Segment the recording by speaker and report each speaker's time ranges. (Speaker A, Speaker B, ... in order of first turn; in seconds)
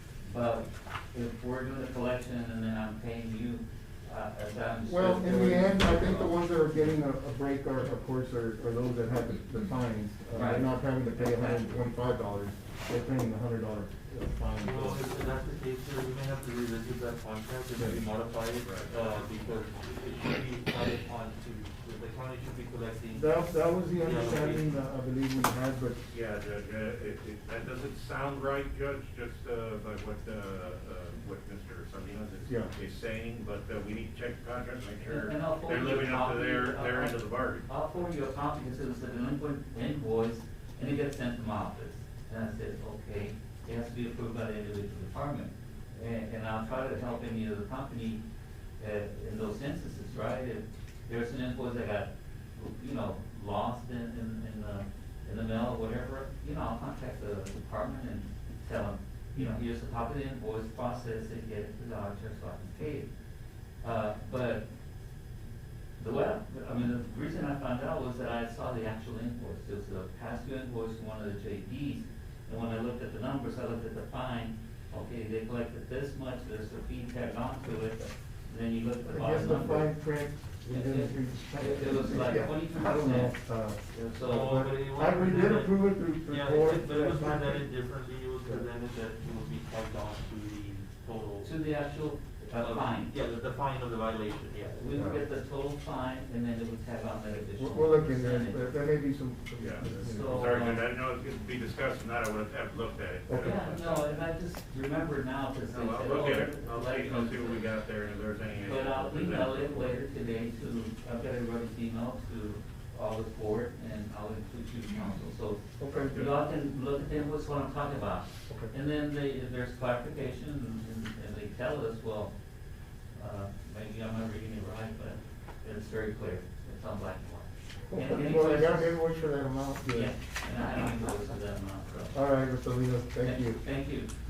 Speaker A: 0.2-6.9, 10.3-11.8, 35.1-48.2, 48.8-63.1, 63.8-64.7, 66.0-80.0, 80.7-83.4, 83.9-84.6, 91.4-93.2, 94.7-98.6, 100.0-100.8, 103.4-107.7, 108.6-122.3, 123.1-129.0, 129.9-132.2, 133.2-134.1
Speaker B: 4.8-15.0, 23.1-26.0, 32.5-32.7, 79.0-83.8, 84.4-87.7, 94.9-95.2, 97.6-100.4, 103.3-103.6, 115.8-116.2, 127.9-130.1, 132.1-133.6
Speaker C: 14.6-24.7, 84.2-91.6, 92.5-94.8
Speaker D: 18.6-19.4, 26.1-37.7, 99.6-104.1, 105.7-110.0, 115.9-116.3